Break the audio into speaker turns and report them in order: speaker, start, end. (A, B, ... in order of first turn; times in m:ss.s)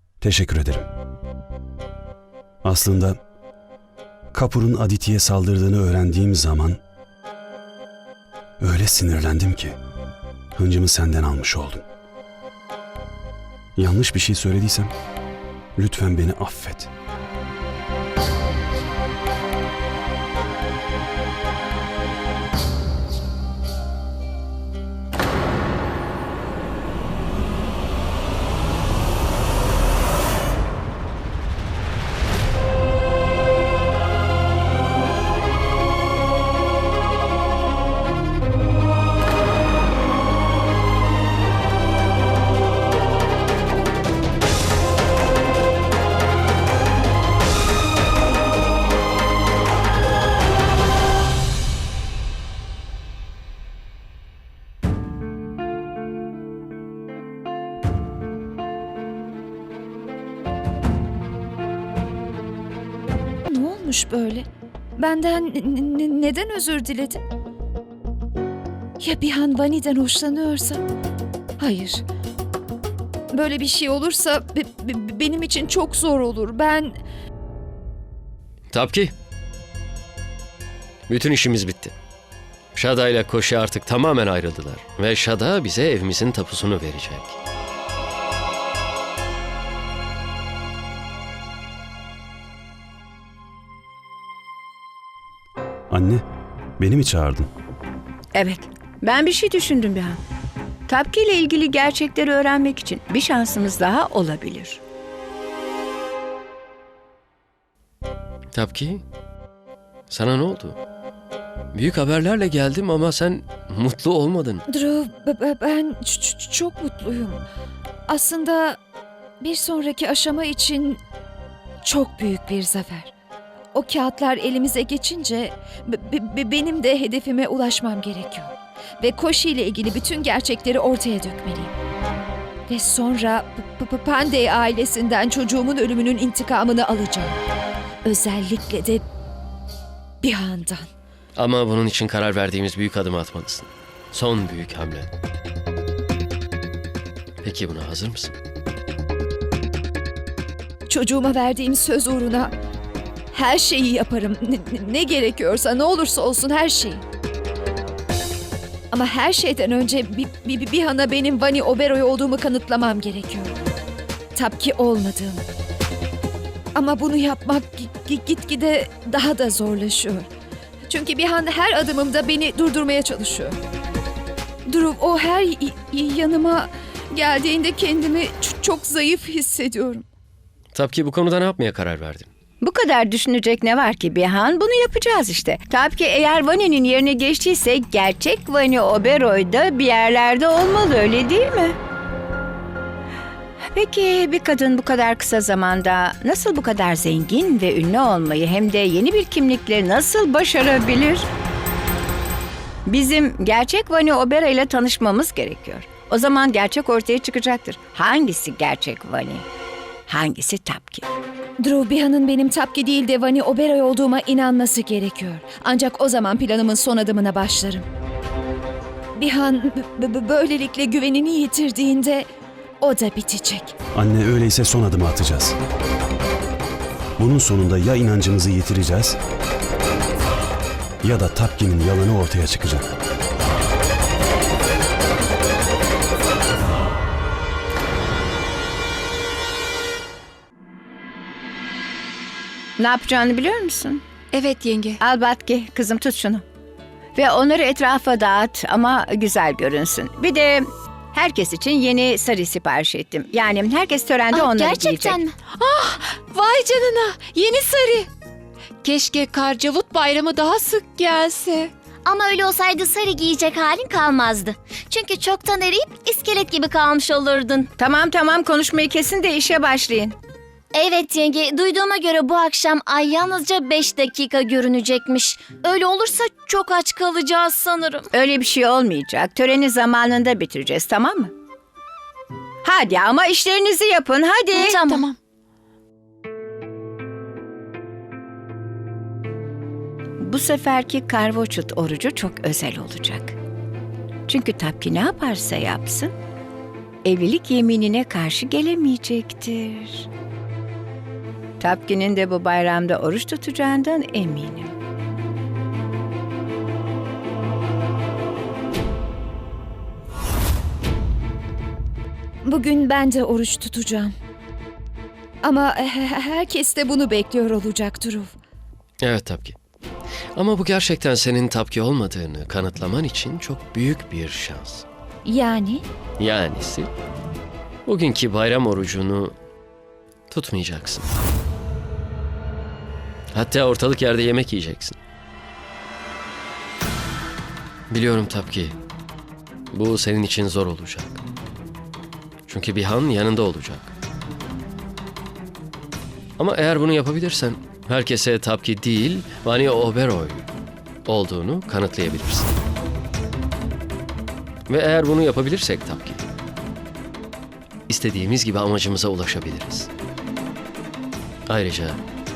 0:00.2-0:00.8 A
0:02.6-0:03.2 A
0:04.3-0:06.8 A
0:08.6-0:09.8 A
0:10.6-0:11.8 A
0:13.8-0:14.9 A
0:15.8-0:16.9 A
1:03.4-1:04.4 B
1:05.0-1:07.2 B
1:09.0-1:10.8 B
1:11.6-1:12.0 B
1:13.3-1:17.0 B
1:18.7-1:19.1 C
1:21.1-1:21.9 C
1:22.7-1:27.3 C
1:35.9-1:36.2 A
1:36.8-1:37.5 A
1:38.3-1:40.2 D
1:40.9-1:44.8 D
1:48.5-1:49.0 C
1:50.1-1:50.8 C
1:51.7-1:54.6 C
1:54.7-1:57.4 B
1:58.1-1:58.8 B
1:59.4-2:01.0 B
2:01.8-2:03.1 B
2:03.7-2:11.7 B
2:12.7-2:17.4 B
2:18.0-2:19.0 B
2:20.2-2:20.9 B
2:21.4-2:25.1 C
2:27.4-2:28.3 C
2:30.9-2:32.5 B
2:33.3-2:37.0 B
2:38.9-2:43.5 B
2:44.3-2:45.4 B
2:46.7-2:50.3 B
2:50.9-2:53.5 B
2:54.6-3:00.0 B
3:00.7-3:02.3 C
3:02.6-3:11.8 D
3:13.6-3:21.3 D
3:22.8-3:29.4 D
3:30.1-3:31.1 D
3:31.6-3:37.8 B
3:39.1-3:42.3 B
3:42.8-3:43.7 B
3:43.9-3:45.6 A
3:47.2-3:49.2 A
3:51.0-3:52.9 A
4:02.8-4:04.0 D
4:04.7-4:06.4 D
4:07.1-4:15.2 D
4:14.3-4:15.3 E
4:15.5-4:18.1 F
4:18.8-4:21.7 F
4:22.0-4:27.7 E
4:27.8-4:30.2 D
4:30.7-4:38.1 E
4:38.1-4:41.3 D
4:42.6-4:45.1 D
4:44.6-4:45.1 E
4:50.2-4:53.4 D
4:54.3-4:56.1 D
4:57.0-5:00.1 D
5:01.6-5:04.7 D
5:12.4-5:14.1 B
5:15.4-5:18.3 B
5:19.0-5:19.6 C
5:20.3-5:24.8 C
5:25.2-5:25.8 B
5:26.2-5:26.9 C
5:27.8-5:29.3 C
5:30.3-5:31.1 C
5:33.3-5:35.0 C
5:37.9-5:38.8 C
5:39.7-5:41.2 C
5:42.5-5:43.9 C
5:46.4-5:50.5 C
5:51.1-5:52.5 C
5:54.7-5:56.2 C
5:57.9-5:59.9 C
6:01.5-6:02.0 C